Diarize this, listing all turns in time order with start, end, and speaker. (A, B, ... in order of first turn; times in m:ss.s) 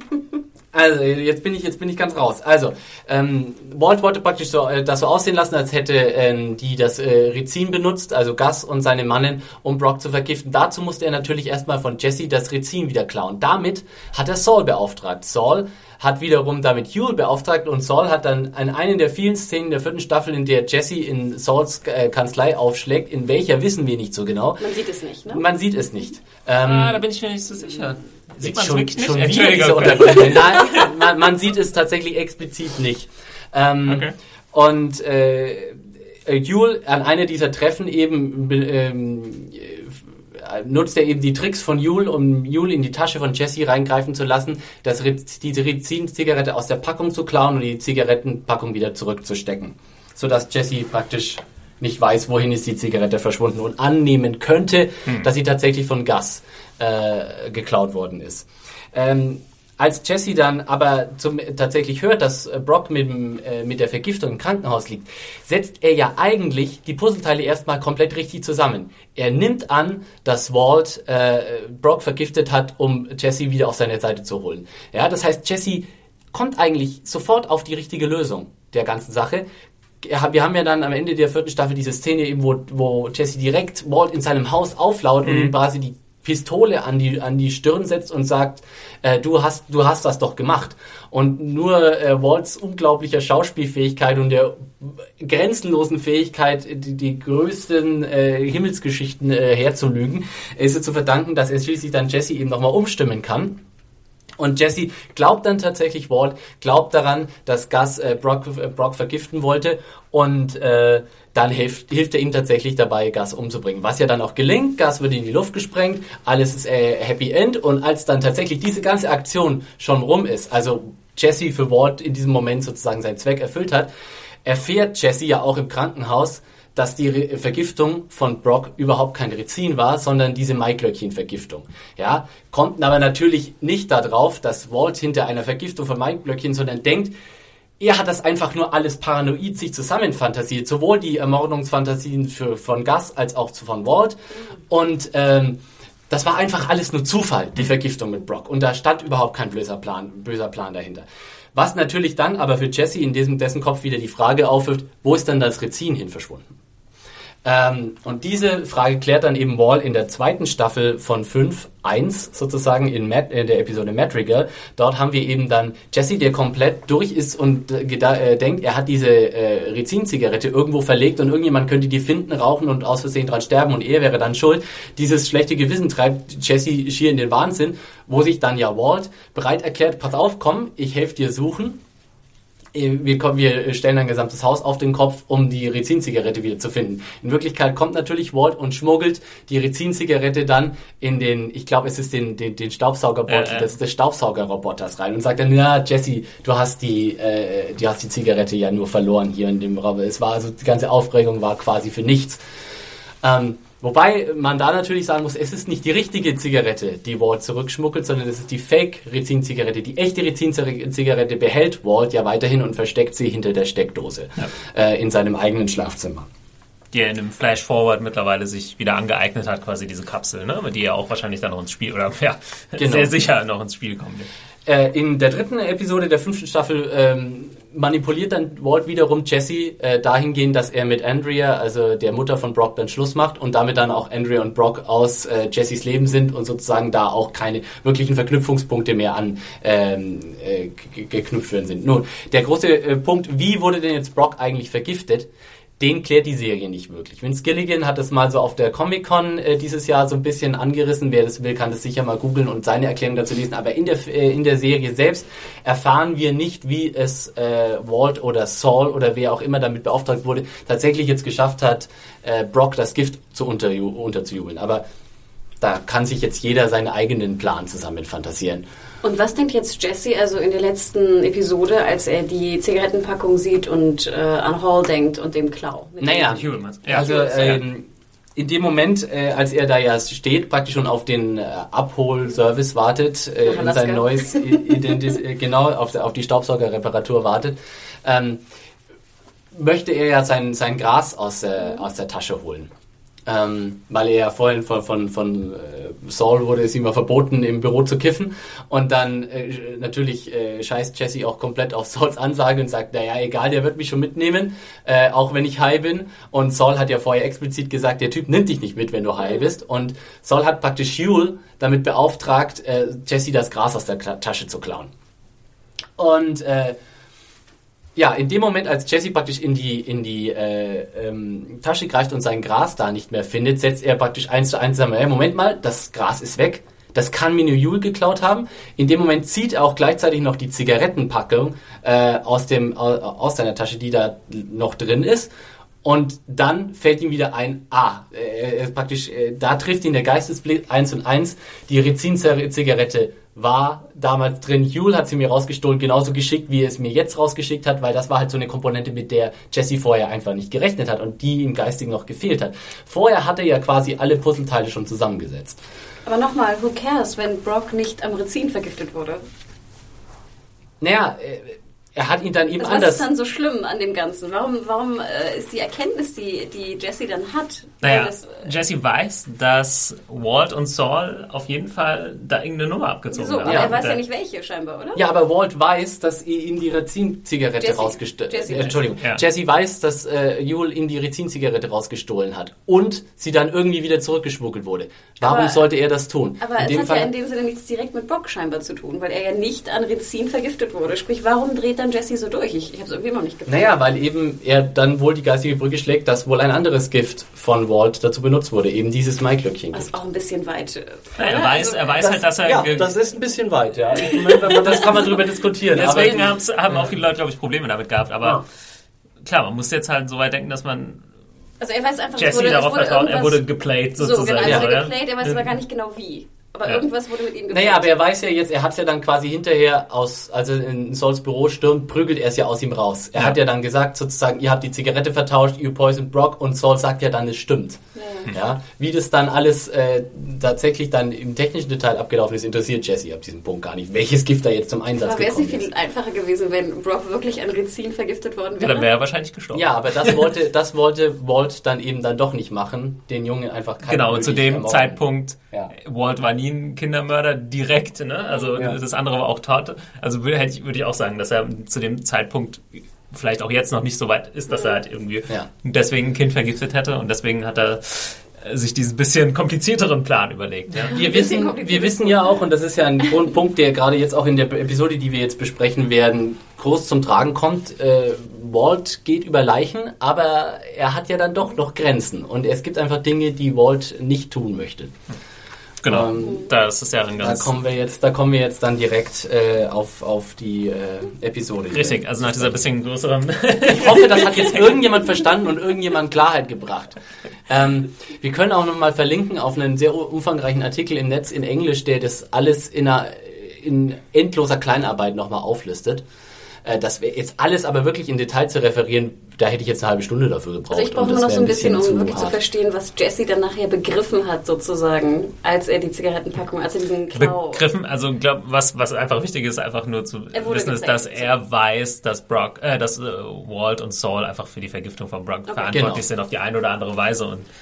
0:00.7-0:24.7 A
0:24.6-0:25.4 B
0:25.3-0:27.0 A
0:26.6-0:30.9 C
0:28.4-1:19.4 A
0:33.9-0:34.1 C
1:20.0-1:43.6 A
1:25.2-1:25.5 C
1:44.4-2:03.9 A
2:04.4-2:17.1 A
2:17.8-2:24.2 A
2:24.7-2:25.6 A
2:26.1-2:36.5 A
2:37.4-3:01.8 A
3:02.7-3:22.4 A
3:13.3-3:13.7 C
3:23.2-3:36.3 A
3:36.9-3:44.3 C
3:42.8-3:43.1 A
3:44.7-4:24.8 A
4:25.6-4:28.6 A
4:29.0-4:36.4 B
4:36.0-4:48.4 A
4:36.3-4:37.6 C
4:36.9-4:37.6 B
4:43.4-4:45.0 B
4:49.5-4:52.7 A
4:53.3-5:14.9 A
5:16.0-5:16.8 A
5:18.0-5:35.3 A
5:35.8-5:55.6 A
5:56.1-5:59.2 B
6:00.8-6:03.1 A
6:02.6-6:08.5 B
6:07.8-6:14.0 C
6:13.1-6:15.0 B
6:13.5-6:13.7 A
6:15.0-6:27.1 A
6:17.6-6:18.9 B
6:25.2-6:25.7 B
6:26.4-6:33.7 B
6:33.5-6:39.9 A
6:39.7-6:42.2 B
6:41.2-6:42.9 C
6:42.1-6:46.9 A
6:44.0-6:45.1 B
6:45.7-6:48.4 C
6:49.2-6:51.0 C
6:51.6-6:53.4 B
6:52.2-6:55.5 C
6:54.0-6:57.9 B
6:54.4-6:54.7 A
6:57.5-7:15.7 A
7:08.0-7:08.3 B
7:15.0-7:18.9 B
7:18.6-7:20.3 C
7:19.5-7:25.7 A
7:23.9-7:41.0 C
7:34.5-7:34.8 B
7:40.9-7:55.0 A
7:40.9-7:42.4 B
7:55.8-7:57.5 C
7:55.9-7:56.5 A
7:57.2-8:02.6 A
8:01.7-8:05.0 C
8:03.7-8:07.0 A
8:07.5-8:16.0 A
8:16.6-8:22.4 A
8:20.7-8:27.6 B
8:27.1-8:37.5 C
8:30.3-8:31.3 B
8:35.5-8:35.9 B
8:35.7-8:36.0 A